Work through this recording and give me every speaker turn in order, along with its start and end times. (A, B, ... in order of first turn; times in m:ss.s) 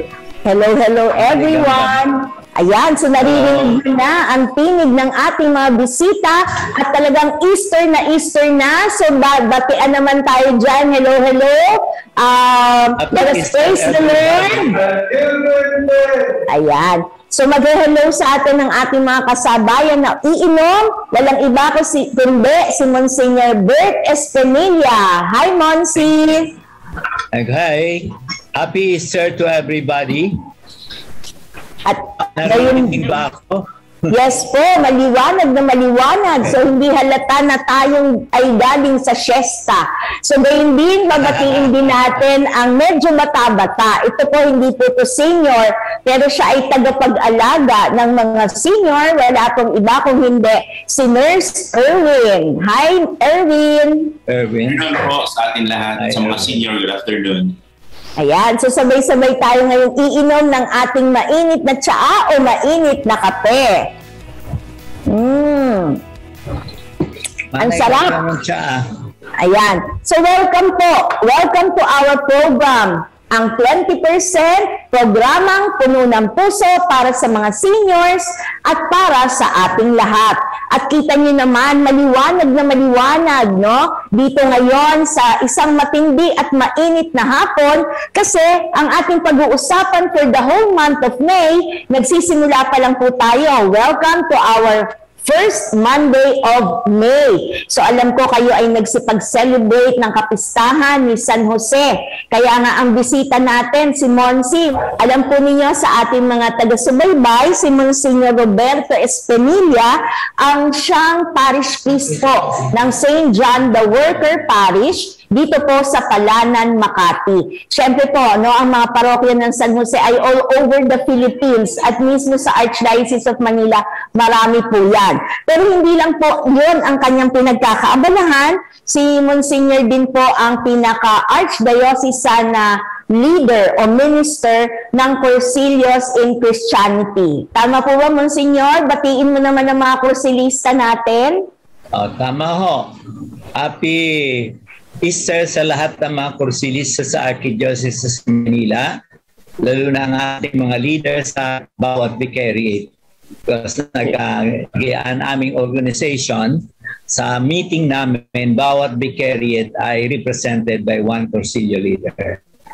0:00.4-0:14.8 A
0:01.2-0:02.0 B
0:03.3-0:03.8 B
0:13.0-0:14.9 B
0:16.5-0:26.5 A
0:27.3-0:30.4 B
0:31.9-0:33.1 A
0:32.4-0:33.7 B
0:34.1-0:54.2 A
0:41.2-0:42.0 B
0:54.3-0:55.0 B
0:54.7-0:57.6 C
0:56.0-0:56.6 B
0:58.2-1:03.9 A
1:05.1-1:06.0 A
1:07.5-1:08.9 B
1:07.6-1:08.2 A
1:09.4-2:21.5 A
2:21.9-2:23.0 B
2:23.6-2:29.0 B
2:29.6-2:32.9 B
2:33.5-2:42.4 B